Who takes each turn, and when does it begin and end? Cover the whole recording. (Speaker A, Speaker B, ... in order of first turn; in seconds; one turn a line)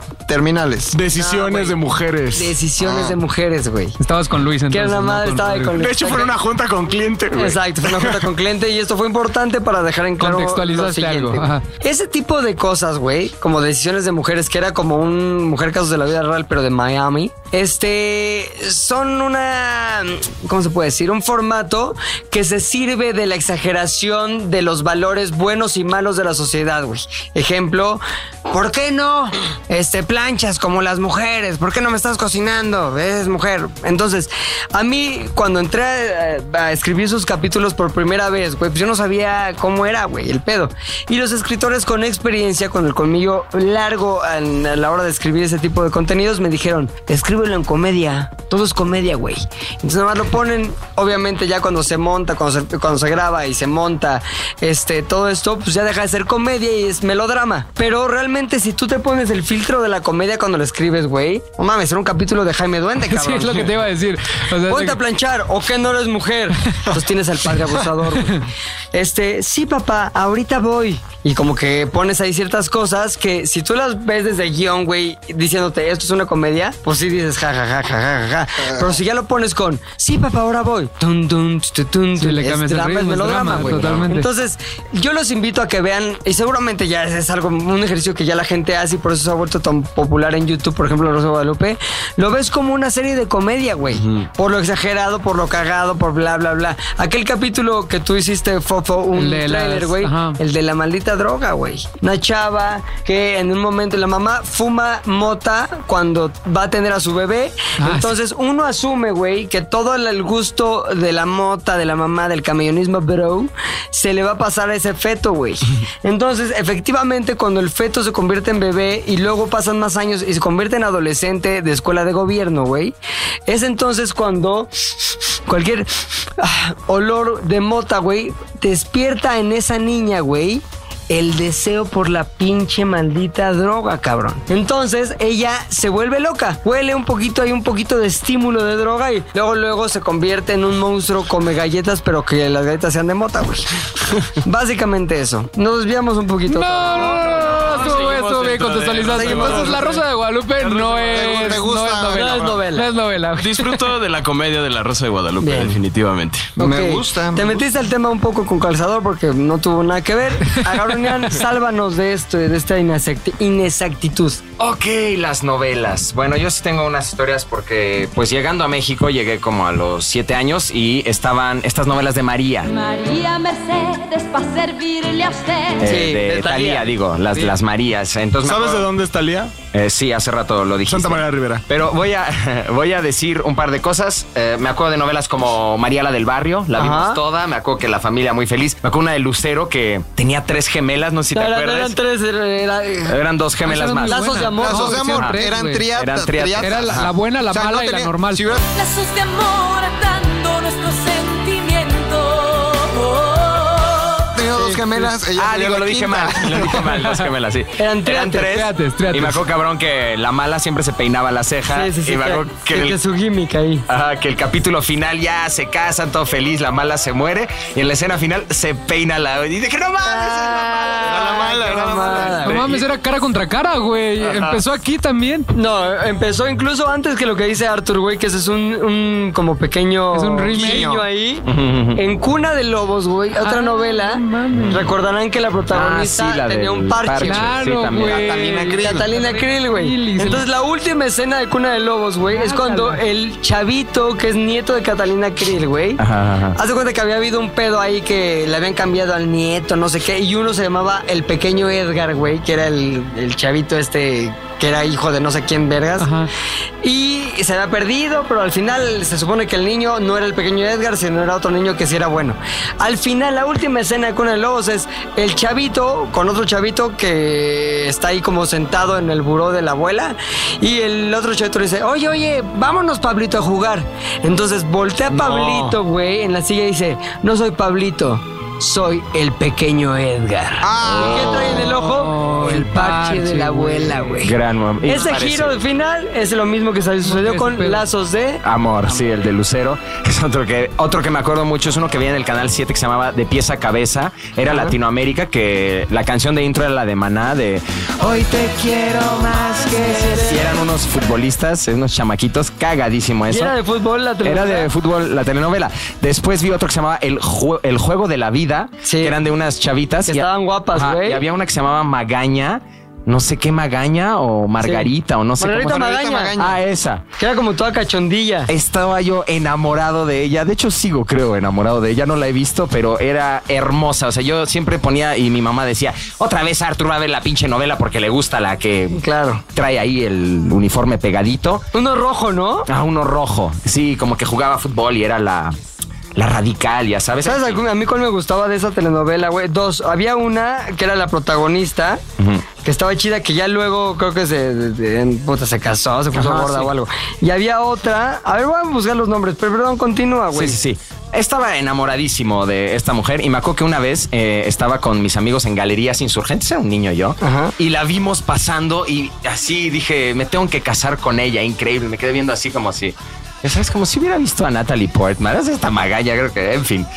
Speaker A: 0.3-1.0
Speaker B: 0.9-2.6
Speaker C: 1.1-1.8
Speaker C: 2.3-4.0
Speaker A: 2.8-3.2
Speaker D: 4.0-5.8
Speaker C: 4.7-6.3
Speaker B: 5.8-8.3
Speaker C: 7.3-63.7
Speaker D: 10.2-11.6
Speaker D: 63.1-65.0
Speaker C: 64.7-123.0
Speaker D: 82.2-84.3
Speaker D: 99.2-100.4
Speaker D: 107.8-108.1
Speaker C: 123.5-124.7
Speaker C: 125.5-143.7
Speaker C: 144.3-147.2
Speaker D: 146.5-153.8
Speaker E: 147.5-150.0
Speaker C: 149.1-150.0
Speaker E: 150.6-151.6
Speaker A: 151.1-152.6
Speaker C: 152.1-152.9
Speaker E: 153.4-156.5
Speaker C: 155.4-155.8
Speaker C: 156.6-164.4
Speaker A: 156.6-157.7
Speaker F: 164.6-172.7
Speaker G: 172.6-175.9
Speaker C: 175.8-177.5
Speaker F: 175.8-178.9
Speaker B: 178.4-179.5
Speaker F: 179.7-191.9
Speaker B: 180.8-181.6
Speaker C: 186.8-187.2
Speaker C: 191.3-193.2
Speaker F: 193.1-194.2
Speaker D: 193.7-195.9
Speaker C: 194.1-195.2
Speaker A: 194.5-198.6
Speaker F: 195.1-195.4
Speaker F: 195.9-197.1
Speaker D: 196.6-198.5
Speaker G: 198.7-204.3
Speaker A: 204.3-206.8
Speaker C: 204.6-205.0
Speaker F: 205.3-213.0
Speaker D: 206.8-207.2
Speaker C: 207.8-208.5
Speaker D: 208.4-209.4
Speaker C: 211.7-213.9
Speaker F: 213.9-221.0
Speaker C: 220.0-222.7
Speaker A: 221.0-222.8
Speaker D: 222.4-225.5
Speaker C: 225.5-237.5
Speaker D: 230.1-230.9
Speaker A: 230.5-231.1
Speaker F: 231.5-232.0
Speaker D: 233.4-234.9
Speaker F: 235.7-238.3
Speaker D: 237.2-240.4
Speaker A: 237.9-239.1
Speaker C: 238.7-246.0
Speaker D: 242.3-243.0
Speaker F: 246.0-246.6
Speaker C: 246.6-256.1
Speaker D: 256.0-256.3
Speaker C: 256.8-288.4
Speaker A: 275.1-275.7
Speaker A: 280.6-281.7
Speaker F: 280.8-281.6
Speaker D: 281.5-284.2
Speaker F: 284.2-285.6
Speaker D: 287.0-287.8
Speaker F: 288.4-303.6
Speaker C: 294.5-294.8
Speaker C: 299.8-300.5
Speaker C: 303.3-304.7
Speaker F: 304.2-317.0
Speaker C: 308.8-309.2
Speaker C: 310.1-311.2
Speaker C: 314.6-316.5
Speaker A: 315.7-316.6
Speaker C: 317.2-318.5
Speaker F: 318.5-329.0
Speaker C: 328.9-329.4
Speaker F: 329.5-331.7
Speaker C: 331.7-332.7
Speaker F: 332.7-335.6
Speaker F: 336.2-337.6
Speaker C: 337.2-342.0
Speaker F: 342.2-342.5
Speaker C: 342.6-350.6
Speaker F: 346.1-346.7
Speaker F: 350.3-366.9
Speaker C: 357.2-357.5